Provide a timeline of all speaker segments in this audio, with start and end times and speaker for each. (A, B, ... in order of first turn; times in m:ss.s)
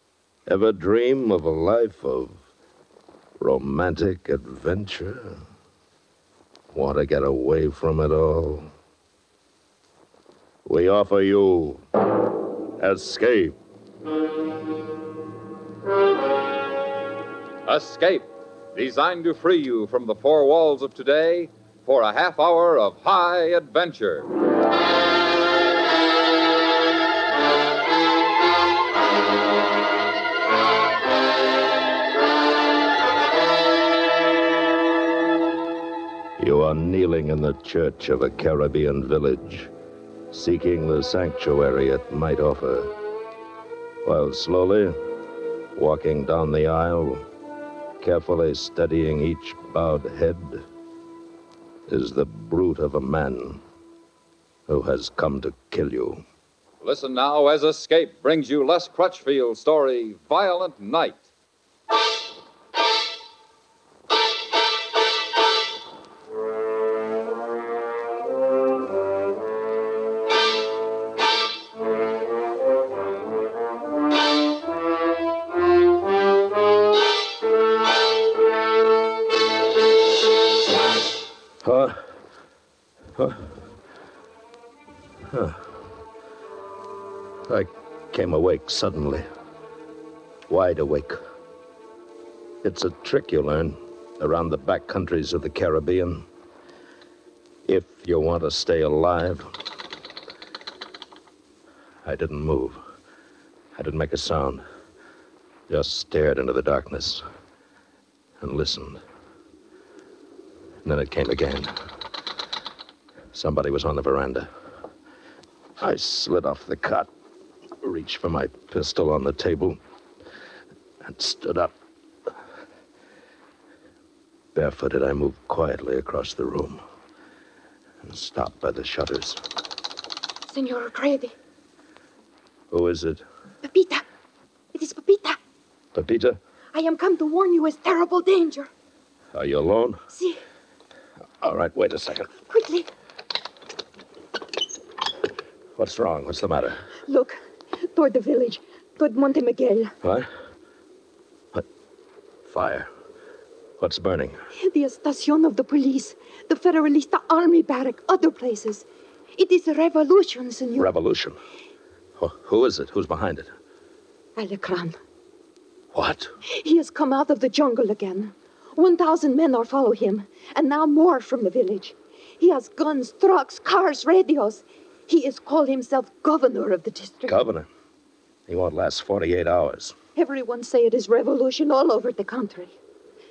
0:00.5-0:02.4 A
0:03.4-0:05.4 A
0:06.7-0:08.7 A
0:10.6-0:11.8 A
0:12.8-0:13.6 A
0:17.7-0:24.3 B
0:36.4-0:39.7 A
0:40.3-0:42.9 A
0:44.0-0:45.0 A
0:45.8-0:47.2 A
0:48.0-0:50.6 A
0:51.9-0:53.6 A
0:54.7-0:56.2 A
0:56.8-1:01.3 B
1:21.6-1:22.0 A
1:23.2-1:23.4 A
1:25.3-1:25.7 A
1:27.5-1:29.2 A
1:30.5-1:31.2 A
1:32.6-1:36.2 A
1:37.7-1:39.5 A
1:42.0-1:42.8 A
1:43.8-1:44.6 A
1:45.7-1:47.2 A
1:48.4-1:49.0 A
1:50.8-1:51.7 A
1:53.3-1:54.5 A
1:55.8-1:57.1 A
1:57.8-1:59.8 A
2:01.0-2:01.8 A
2:04.5-2:06.8 A
2:08.0-2:09.4 A
2:10.5-2:11.3 C
2:12.7-2:13.2 A
2:13.6-2:14.0 C
2:14.7-2:15.4 C
2:15.9-2:16.4 A
2:16.7-2:18.7 C
2:19.3-2:20.0 A
2:20.1-2:20.4 C
2:21.4-2:22.3 A
2:22.5-2:22.9 C
2:25.8-2:26.8 A
2:27.1-2:27.4 C
2:27.9-2:29.9 C
2:30.0-2:30.3 A
2:32.4-2:32.9 A
2:33.8-2:34.4 A
2:34.5-2:40.9 C
2:40.8-2:41.4 A
2:42.2-2:43.5 A
2:44.4-2:45.0 C
2:45.9-2:46.3 A
2:46.5-2:57.4 C
2:57.3-2:57.7 A
2:58.5-3:00.0 A
3:00.2-3:02.8 C